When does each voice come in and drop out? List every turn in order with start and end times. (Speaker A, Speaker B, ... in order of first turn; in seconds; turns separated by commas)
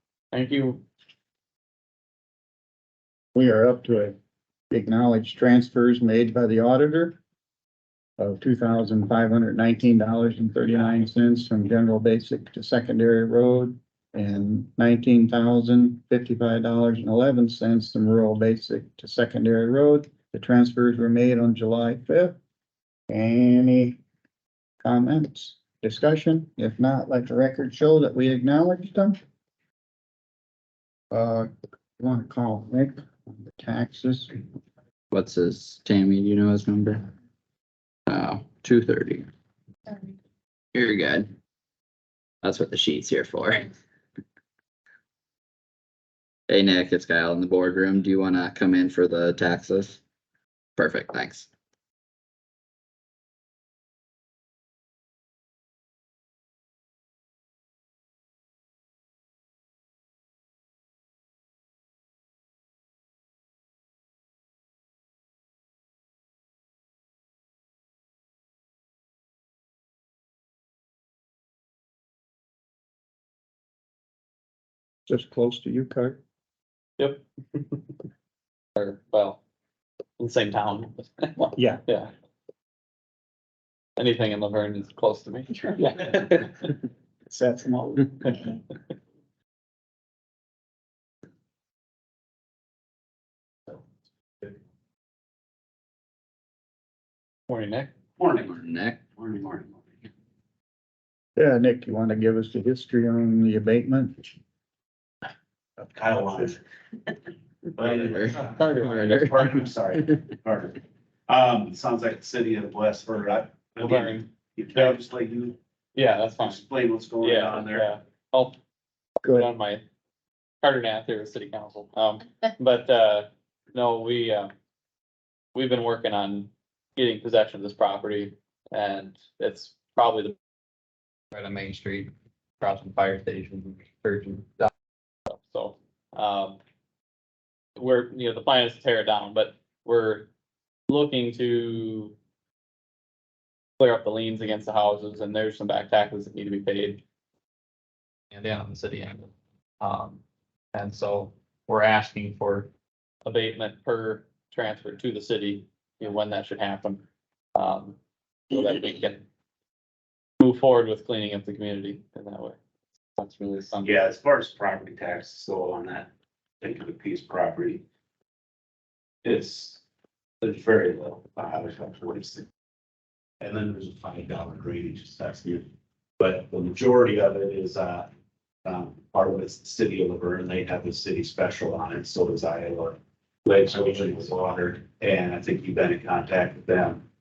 Speaker A: 0.3-0.8, Speaker B: 3.3-4.2, Speaker B: 4.7-7.2, Speaker B: 8.2-22.4, Speaker B: 23.1-24.0, Speaker B: 24.8-29.2, Speaker B: 31.1-34.3, Speaker C: 35.1-37.0, Speaker C: 38.1-39.3, Speaker C: 40.7-41.3, Speaker C: 42.4-43.7, Speaker C: 46.5-50.0, Speaker C: 50.8-51.5, Speaker B: 75.1-76.2, Speaker A: 77.0-77.9, Speaker A: 78.8-79.4, Speaker A: 80.2-82.1, Speaker B: 81.5-81.8, Speaker A: 84.0-86.7, Speaker B: 87.3-88.5, Speaker A: 97.5-97.9, Speaker D: 98.2-100.1, Speaker C: 98.5-99.0, Speaker B: 101.4-104.3, Speaker D: 105.8-106.6, Speaker D: 107.8-115.5, Speaker C: 107.9-110.2, Speaker A: 113.8-115.0, Speaker A: 115.9-116.6, Speaker D: 116.4-117.9, Speaker A: 117.2-118.5, Speaker B: 119.2-119.5, Speaker A: 119.2-119.8, Speaker A: 120.6-124.5, Speaker A: 125.5-130.3, Speaker C: 131.3-134.7, Speaker A: 135.3-136.6, Speaker A: 137.8-140.3, Speaker A: 140.9-142.2, Speaker A: 143.8-147.0, Speaker A: 148.3-150.2, Speaker A: 150.7-152.7, Speaker A: 153.2-157.0, Speaker A: 157.5-157.9, Speaker A: 158.5-159.2, Speaker A: 160.4-162.6, Speaker A: 163.2-164.0, Speaker D: 163.8-166.1, Speaker D: 166.6-167.8, Speaker D: 169.2-169.8, Speaker D: 170.4-172.5, Speaker D: 173.4-175.7, Speaker D: 176.2-178.1, Speaker D: 178.6-187.1